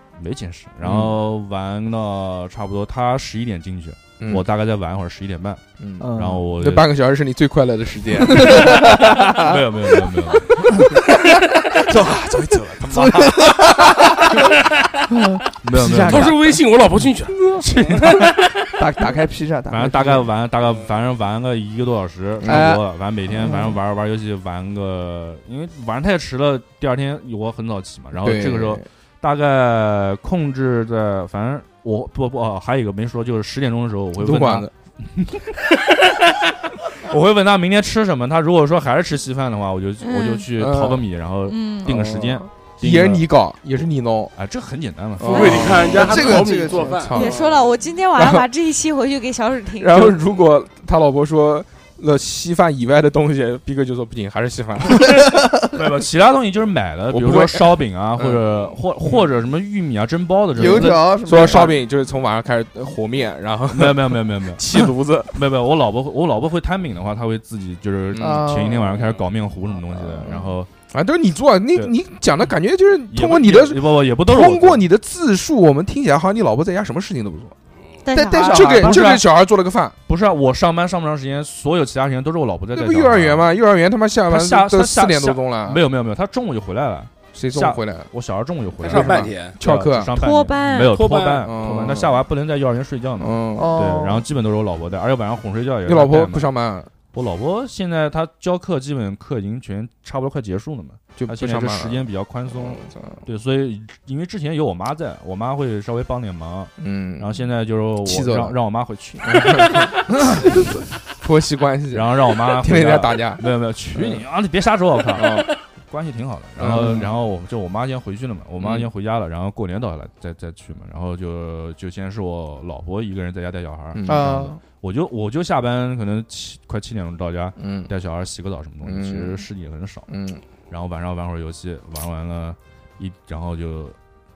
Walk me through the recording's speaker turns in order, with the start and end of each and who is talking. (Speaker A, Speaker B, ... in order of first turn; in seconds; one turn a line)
Speaker A: 0.2-6.9
Speaker B: 0.8-1.1
Speaker B: 4.2-4.5
Speaker B: 5.8-9.0
Speaker C: 6.0-6.5
Speaker C: 8.3-9.6
Speaker A: 8.4-11.1
Speaker B: 11.7-14.1
Speaker A: 11.9-12.6
Speaker C: 12.9-14.5
Speaker C: 15.1-16.4
Speaker A: 15.6-16.6
Speaker D: 16.1-18.6
Speaker C: 17.4-18.1
Speaker A: 17.6-18.5
Speaker C: 18.7-20.3
Speaker A: 19.7-35.6
Speaker B: 22.4-22.7
Speaker C: 22.4-22.9
Speaker C: 23.4-23.8
Speaker B: 28.2-28.8
Speaker B: 34.2-34.7
Speaker A: 36.8-43.3
Speaker E: 40.0-40.5
Speaker B: 40.6-41.0
Speaker E: 41.5-42.0
Speaker B: 41.9-44.3
Speaker A: 44.4-45.9
Speaker B: 45.2-47.4
Speaker D: 45.2-47.7
Speaker E: 45.2-46.0
Speaker C: 45.9-47.0
Speaker E: 47.1-50.2
Speaker B: 48.1-48.5
Speaker B: 49.8-55.2
Speaker A: 55.6-61.6
Speaker B: 57.1-58.4
Speaker C: 60.5-61.8
Speaker B: 61.2-65.4
Speaker A: 63.7-70.7
Speaker C: 68.2-69.1
Speaker B: 70.0-77.5
Speaker A: 73.1-74.8
Speaker E: 78.0-78.8
Speaker C: 78.1-79.2
Speaker B: 78.5-80.0
Speaker A: 78.7-79.3
Speaker A: 80.1-83.5
Speaker B: 82.7-85.8
Speaker A: 84.3-96.5
Speaker B: 87.3-88.1
Speaker D: 88.8-89.6
Speaker B: 88.9-90.1
Speaker E: 90.2-91.0
Speaker D: 90.9-91.5
Speaker B: 91.4-92.2
Speaker B: 93.2-93.7
Speaker C: 93.6-94.2
Speaker B: 95.9-96.9
Speaker A: 97.1-110.8
Speaker B: 101.2-102.0
Speaker B: 102.6-103.2
Speaker B: 106.8-107.4
Speaker B: 108.0-108.6
Speaker B: 109.2-113.4
Speaker A: 111.9-130.1
Speaker B: 114.0-114.2
Speaker B: 115.2-115.5
Speaker B: 116.6-117.1
Speaker B: 118.6-118.9
Speaker B: 124.0-124.4
Speaker C: 124.1-124.6
Speaker B: 127.6-127.9
Speaker B: 128.8-129.4
Speaker B: 130.1-130.4
Speaker A: 130.7-134.0